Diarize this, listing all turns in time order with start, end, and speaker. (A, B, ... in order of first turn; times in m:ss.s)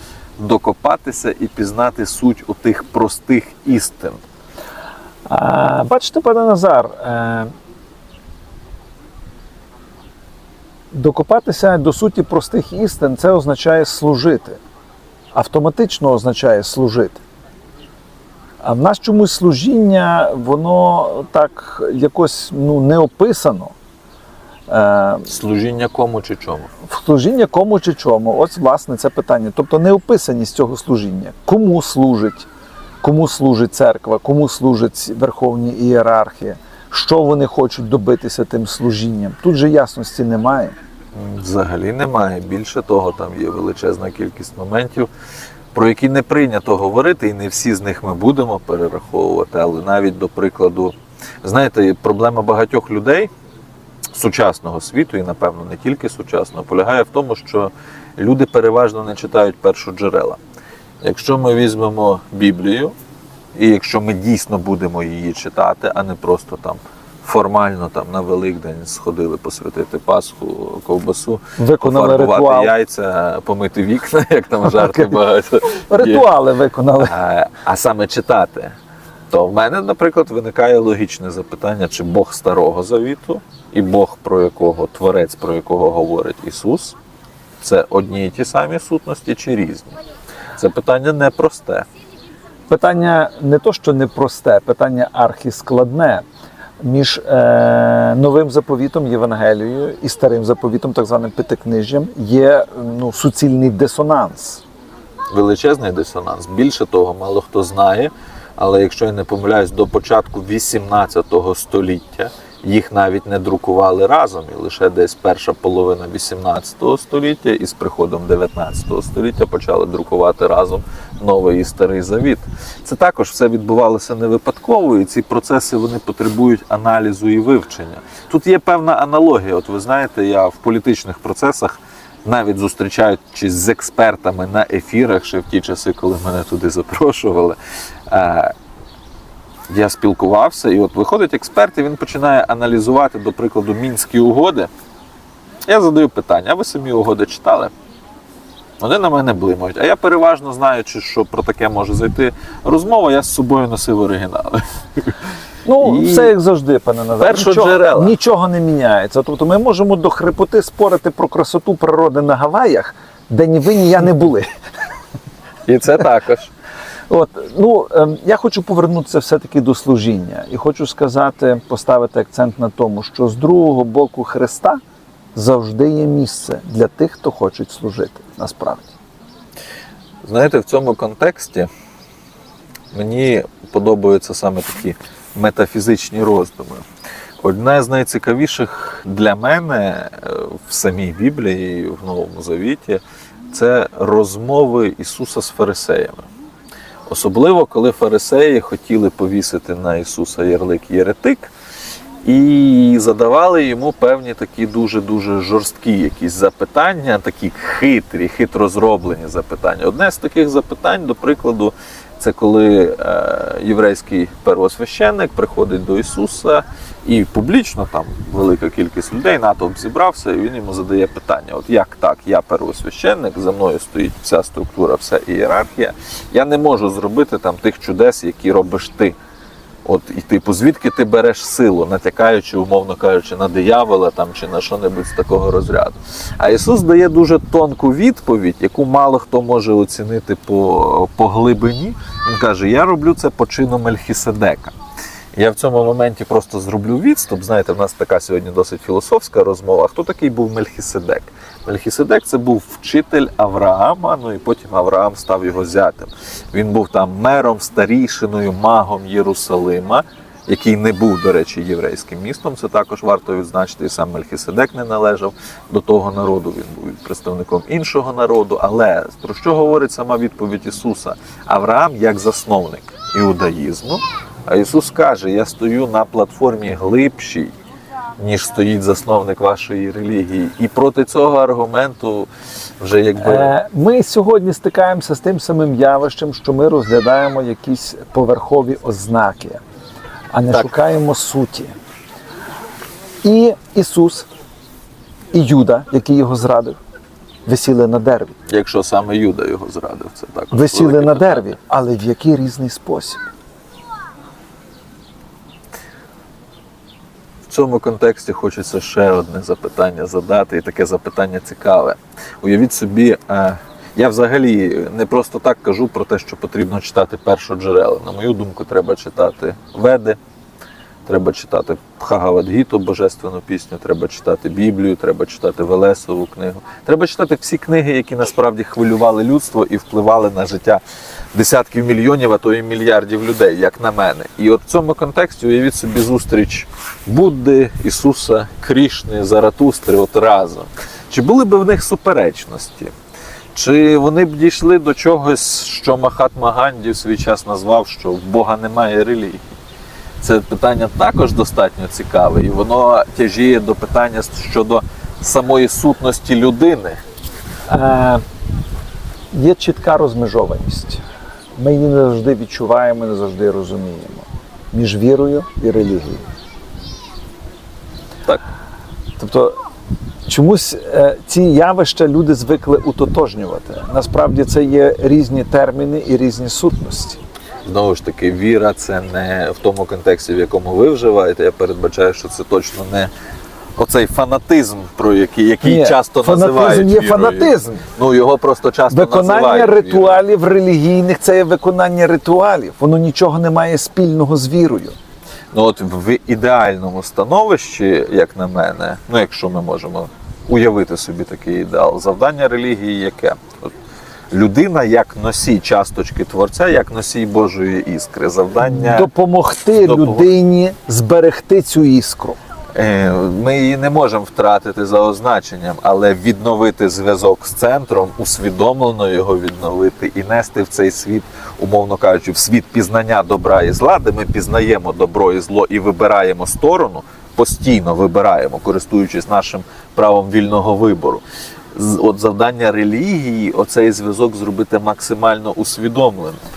0:00.4-0:04.2 A
0:05.3-0:07.5 B
0:10.9-0:14.6 B
0:15.3-0:17.2 B
0:18.6-0:23.7 B
0:24.7-0:25.3 B
0:25.3-0:26.7 A
0:26.9-0:32.5 B
0:33.0-0:40.8 B
0:41.1-0:45.1 A
0:45.7-0:53.3 A
0:54.2-1:00.4 A
1:01.0-1:03.0 A
1:03.6-1:16.3 A
1:11.6-1:12.7 B
1:14.7-1:15.2 B
1:15.7-1:17.2 B
1:17.0-1:18.8 A
1:19.3-1:27.0 A
1:27.6-1:30.0 A
1:30.6-1:31.9 A
1:32.7-1:36.2 B
1:36.8-1:44.6 B
1:45.3-2:18.5 A
2:19.7-2:24.7 A
2:25.7-2:27.7 A
2:28.8-2:35.2 A
2:35.6-2:44.5 B
2:35.8-2:36.3 A
2:37.2-2:38.2 A
2:45.7-2:46.5 A
2:47.1-2:54.8 B
2:55.4-2:59.0 B
3:00.2-3:01.7 A
3:02.9-3:06.9 A
3:07.4-3:16.2 A
3:17.1-3:21.5 A
3:22.2-3:49.2 A
3:49.8-4:04.8 A
4:05.4-4:37.5 A
4:38.2-4:42.3 A
4:42.8-4:43.5 A
4:43.2-4:49.6 B
4:50.3-4:51.7 B
4:53.2-4:54.3 B
4:55.3-4:56.8 B
4:57.5-4:58.4 B
4:58.5-5:01.5 A
5:00.5-5:03.2 B
5:07.5-5:20.2 A
5:21.1-5:30.8 A
5:31.3-5:42.9 A
5:43.5-5:49.4 A
5:50.2-5:57.0 A
5:57.7-5:58.2 B
5:59.3-6:01.0 B
6:01.6-6:06.2 B
6:09.2-6:09.6 B
6:10.3-6:17.2 B
6:17.6-6:23.1 A
6:23.8-6:30.2 A
6:25.6-6:27.8 B
6:28.9-6:35.0 B
6:35.5-6:43.7 A
6:44.3-6:49.1 A
6:48.6-6:52.4 B
6:49.7-6:50.3 A
6:52.8-7:11.2 A
7:11.7-7:16.4 A